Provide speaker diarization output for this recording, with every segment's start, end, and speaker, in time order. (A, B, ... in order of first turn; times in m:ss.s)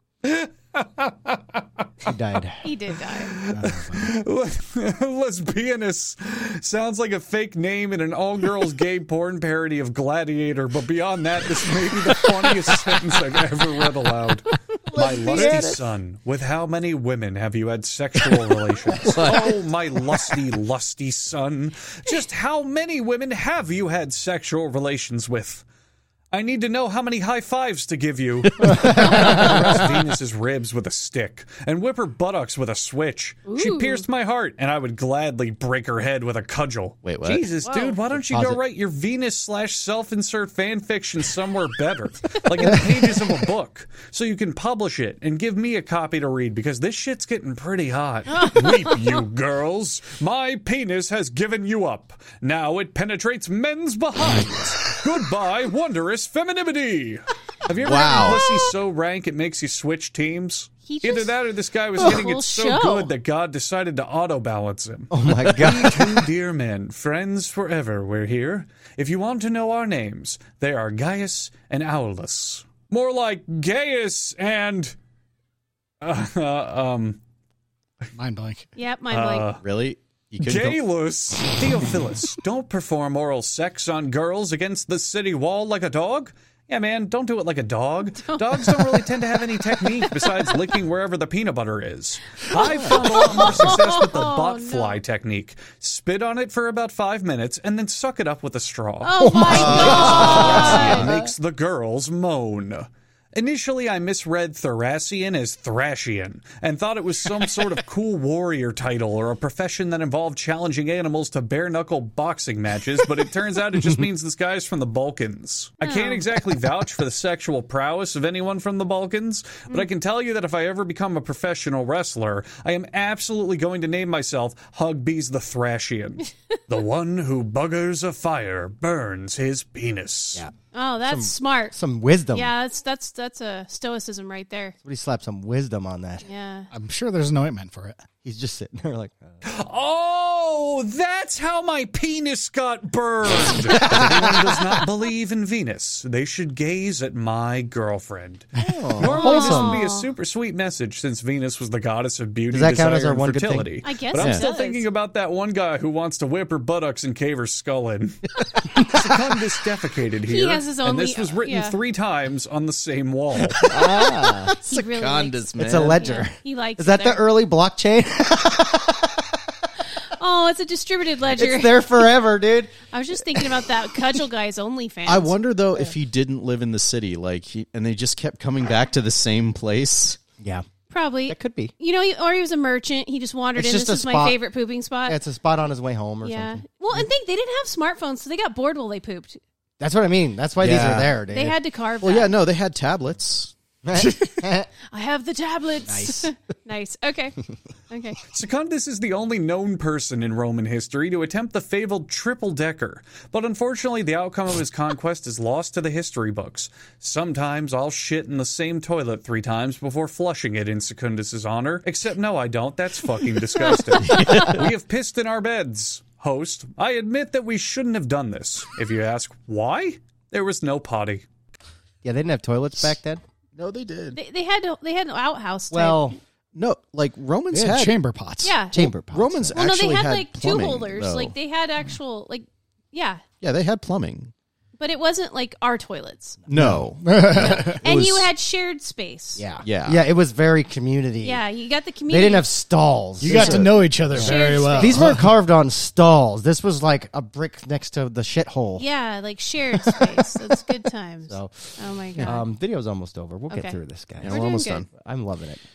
0:00.2-0:01.6 A
0:02.0-0:02.7 B
0:02.6-0:03.4 C
0:03.2-0:25.6 A
0:03.5-0:04.1 B
0:14.9-0:15.9 B
0:15.4-0:15.7 D
0:19.0-0:19.6 D
0:26.3-1:15.0 A
0:28.7-0:29.6 B
0:33.5-0:34.0 C
0:37.0-0:37.4 D
0:37.6-0:38.0 C
0:38.2-0:38.6 B
0:48.3-0:49.2 C
0:57.8-0:58.4 D
0:58.2-0:58.6 C
1:00.9-1:01.3 C
1:02.0-1:03.1 C
1:05.1-1:06.2 B
1:16.0-1:17.2 A
1:18.2-1:18.7 E
1:18.8-1:19.5 C
1:19.1-1:19.6 A
1:19.6-1:20.8 D
1:20.4-2:10.4 A
1:28.2-1:29.0 C
1:30.0-1:30.5 C
1:32.5-1:35.0 C
1:39.0-1:41.1 C
1:39.2-1:41.3 B
1:39.5-1:41.2 D
1:55.8-1:56.3 C
2:10.7-2:11.8 C
2:11.0-2:12.5 B
2:12.3-2:14.8 C
2:14.8-2:16.3 B
2:16.2-2:16.7 C
2:16.7-2:18.0 E
2:18.2-2:19.4 B
2:19.4-2:43.9 A
2:23.8-2:24.4 B
2:28.6-2:29.8 B
2:29.0-2:30.1 C
2:32.5-2:33.7 B
2:33.8-2:34.9 C
2:34.2-2:34.4 D
2:40.3-2:41.8 C
2:43.6-2:44.6 B
2:43.8-2:46.0 D
2:44.5-2:47.2 C
2:45.6-2:49.4 B
2:50.0-2:52.0 C
2:51.3-2:53.7 B
2:52.9-2:55.4 C
2:55.1-3:00.2 D
3:00.4-3:00.6 B
3:00.9-3:05.2 C
3:01.3-3:01.7 B
3:03.6-3:04.4 B
3:05.1-3:07.0 B
3:06.2-3:09.4 C
3:09.8-3:11.6 B
3:10.6-3:11.2 D
3:11.3-3:12.3 C
3:12.0-3:13.5 D
3:13.8-3:14.7 B
3:14.9-3:17.4 C
3:15.9-3:16.3 B
3:17.9-3:18.2 C
3:18.3-3:41.2 A
3:33.7-3:34.6 C
3:34.0-3:34.6 D
3:42.0-3:43.2 B
3:43.6-3:44.2 D
3:44.1-3:46.1 C
3:45.7-3:46.2 B
3:46.5-3:48.0 D
3:47.5-3:48.6 E
3:48.4-3:48.8 C
3:48.7-3:49.6 B
3:48.7-3:51.3 D
3:49.5-3:53.2 C
3:53.4-3:54.3 D
3:54.8-3:56.4 C
3:56.5-3:56.7 B
3:56.5-3:58.3 D
3:56.6-3:57.8 E
3:57.3-3:59.4 C
3:59.4-4:01.4 B
3:59.6-4:00.0 D
4:01.2-4:02.5 C
4:02.1-4:08.8 B
4:03.2-4:05.3 E
4:03.2-4:04.3 D
4:04.1-4:05.0 C
4:08.8-4:12.5 C
4:11.3-4:15.6 B
4:13.5-4:14.9 C
4:14.2-4:14.9 D